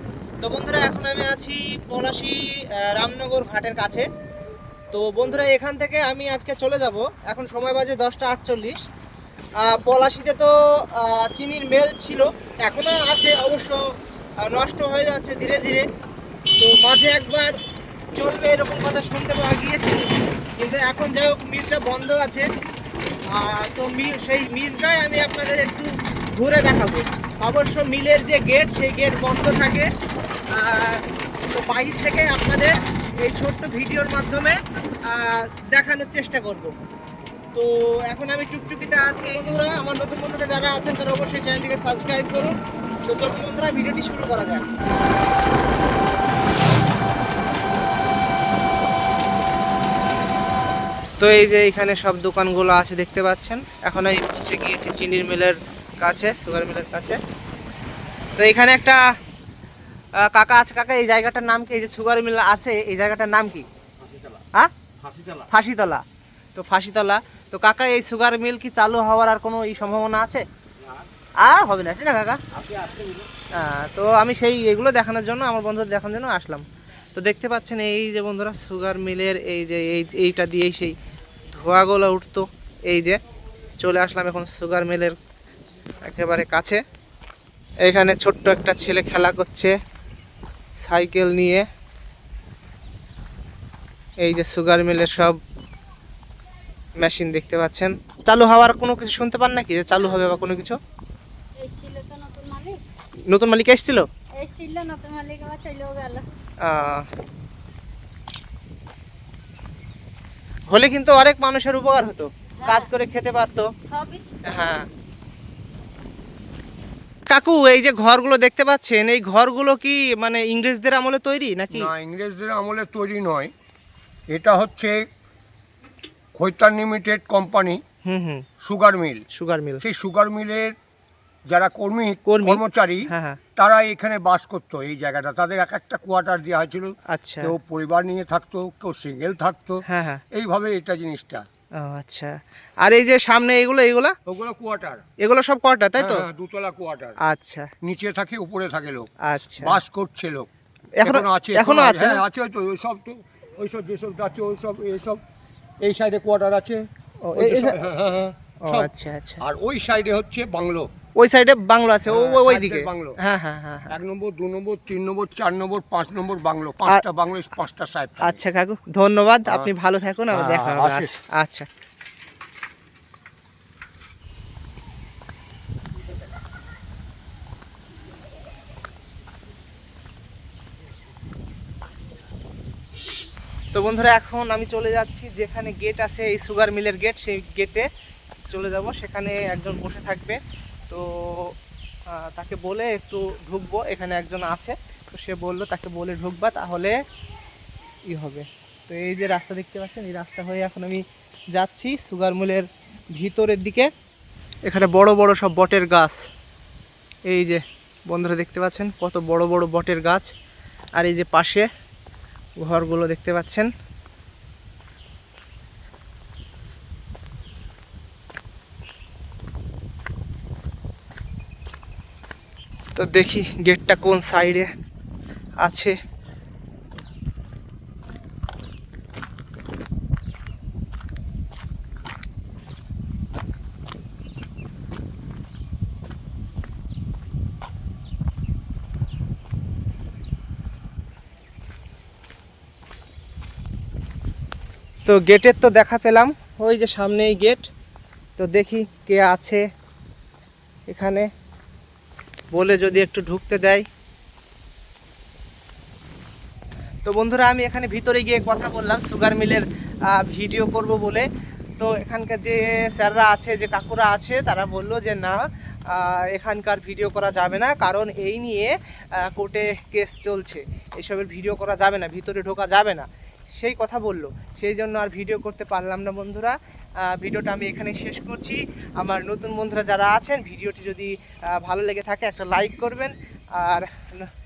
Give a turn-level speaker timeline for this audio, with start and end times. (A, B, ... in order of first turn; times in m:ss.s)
0:00.4-0:04.1 A
0:04.9-0:08.8 A
0:09.6-0:13.8 A
0:14.4-0:15.8 A
0:16.6-0:17.6 A
0:18.1-0:22.5 A
0:23.3-0:29.9 A
0:30.5-0:36.7 A
0:37.5-0:44.7 A
0:51.2-0:57.2 A
0:58.4-0:59.0 A
1:00.2-1:03.6 A
1:05.4-1:06.0 A
1:06.5-1:10.4 A
1:11.4-1:12.4 A
1:13.5-1:21.0 A
1:21.5-1:23.2 A
1:23.8-1:25.2 A
1:26.0-1:26.8 A
1:27.8-1:29.8 A
1:30.8-1:31.6 A
1:34.2-1:35.4 A
1:37.0-1:40.8 A
1:41.6-1:42.8 B
1:43.3-1:44.1 A
1:44.4-1:46.2 B
1:46.6-1:47.0 A
1:50.7-1:53.7 A
1:52.6-1:52.9 B
1:53.9-1:54.2 B
1:54.4-1:54.8 A
1:57.3-2:01.9 A
2:01.7-2:03.5 C
2:04.3-2:05.0 C
2:06.3-2:07.8 C
2:08.0-2:08.4 A
2:08.6-2:09.2 C
2:09.3-2:09.8 A
2:09.8-2:10.8 C
2:11.5-2:21.4 C
2:12.2-2:13.4 A
2:17.1-2:17.6 A
2:19.8-2:20.2 A
2:21.8-2:24.1 A
2:24.2-2:25.0 C
2:25.2-2:26.2 A
2:26.0-2:27.2 C
2:27.2-2:27.7 A
2:27.8-2:30.5 C
2:29.2-2:29.8 A
2:31.0-2:32.2 A
2:31.0-2:35.2 C
2:35.8-2:36.8 C
2:37.2-2:37.8 A
2:37.4-2:40.9 C
2:38.6-2:39.4 A
2:41.2-2:43.9 A
2:42.1-2:43.2 C
2:43.9-2:48.4 C
2:48.2-2:51.7 A
2:49.5-2:49.7 C
2:50.3-2:51.1 C
3:03.7-3:07.8 A
3:08.5-3:10.4 A
3:10.9-3:11.5 A
3:12.1-3:17.0 A
3:18.1-3:21.0 A
3:21.5-3:23.9 A
3:24.6-3:26.2 A
3:27.3-3:30.3 A
3:31.0-3:31.7 A
3:32.6-3:33.7 A
3:43.0-3:44.7 A
3:45.6-3:45.9 A
4:05.0-4:07.6 A
4:08.4-4:09.6 A
4:10.9-4:11.3 A
4:12.5-4:13.8 A
4:17.0-4:21.3 A
4:21.8-4:44.3 A